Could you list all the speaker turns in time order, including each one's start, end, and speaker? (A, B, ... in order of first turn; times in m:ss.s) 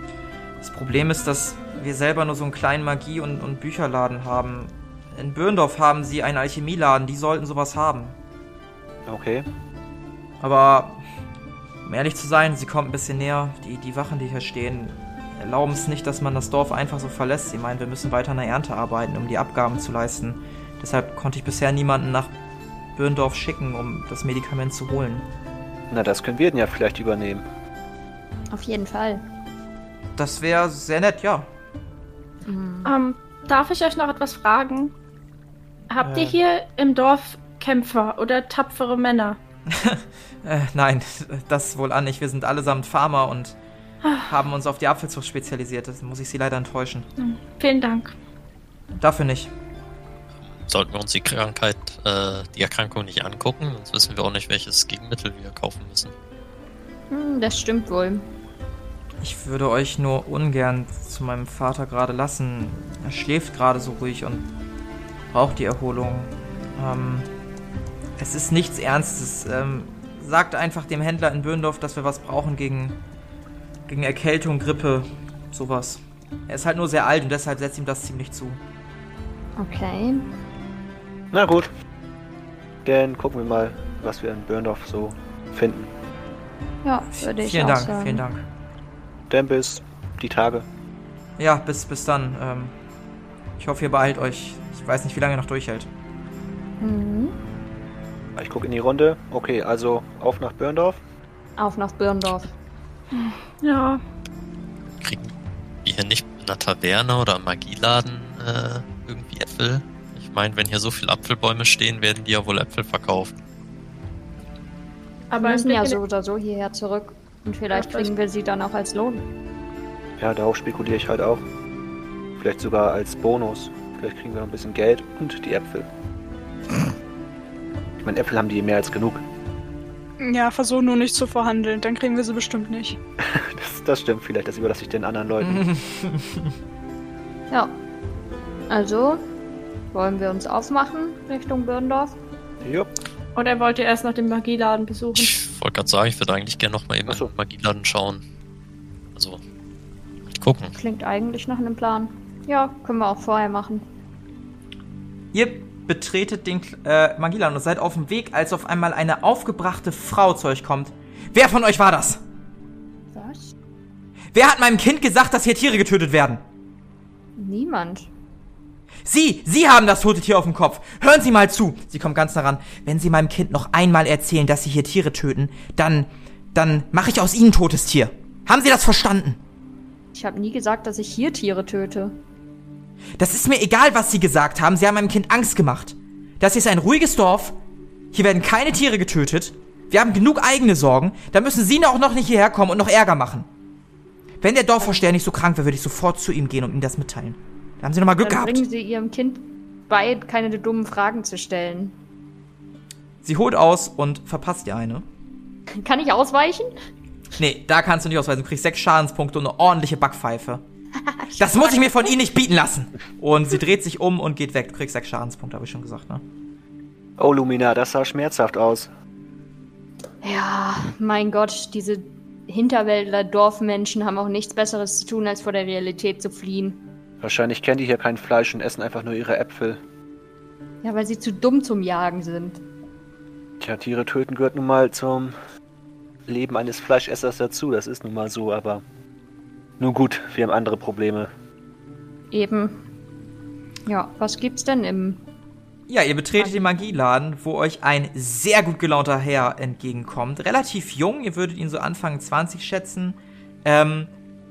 0:00.6-0:08.2 A
0:09.1-0:09.5 B
0:10.4-0:11.0 A
0:11.8-0:22.3 A
0:23.0-0:25.3 A
0:25.9-0:27.4 B
0:28.5-0:29.2 C
0:30.2-0:31.5 A
0:32.4-0:33.0 C
0:32.8-0:34.9 D
0:35.9-0:39.4 D
0:36.0-0:36.4 A
0:39.7-0:43.6 A
0:44.2-0:47.1 A
0:47.2-0:48.2 D
0:49.0-0:49.5 A
0:50.5-0:56.1 E
0:57.1-0:58.3 C
0:59.2-1:04.5 A
1:05.3-1:07.3 A
1:08.2-1:13.0 A
1:13.9-1:18.6 A
1:19.6-1:20.3 C
1:21.3-1:21.7 B
1:22.8-1:25.9 B
1:26.8-1:28.2 C
1:27.2-1:28.4 A
1:29.3-1:30.7 B
1:31.4-1:32.7 A
1:33.6-1:35.9 A
1:36.8-1:37.4 C
1:38.4-1:41.0 B
1:41.6-1:42.5 C
1:43.1-1:44.0 D
1:45.0-1:45.3 E
1:45.8-1:53.3 E
1:55.3-1:56.0 D
1:55.4-1:59.3 C
1:57.7-1:58.1 D
2:00.2-2:01.4 B
2:02.4-2:05.9 B
2:08.0-2:09.2 B
2:10.2-2:13.0 F
2:13.2-2:15.6 B
2:15.4-2:16.5 A
2:17.5-2:17.8 C
2:18.7-2:19.2 C
2:19.9-2:22.2 C
2:22.6-2:22.9 B
2:23.4-2:25.4 D
2:25.2-2:28.2 E
2:29.2-2:29.4 E
2:30.3-2:30.7 E
2:30.8-2:33.8 C
2:35.3-2:42.2 A
2:43.1-2:43.5 C
2:44.3-2:46.4 A
2:47.4-2:48.1 C
2:49.0-2:59.4 A
3:00.1-3:02.2 C
3:03.2-3:07.6 A
3:08.1-3:13.5 A
3:14.4-3:18.6 A
3:18.2-3:22.0 C
3:23.2-3:25.0 A
3:25.8-3:26.7 C
3:27.4-3:30.6 A
3:31.0-3:32.1 C
3:31.4-3:36.2 A
3:37.2-3:38.9 B
3:40.2-3:46.8 C
3:47.2-3:49.8 B
3:50.8-3:52.6 C
3:53.6-3:55.4 B
3:56.3-3:58.8 B
3:59.8-4:01.3 B
4:02.3-4:02.9 C
4:03.9-4:05.2 C
4:05.9-4:14.1 A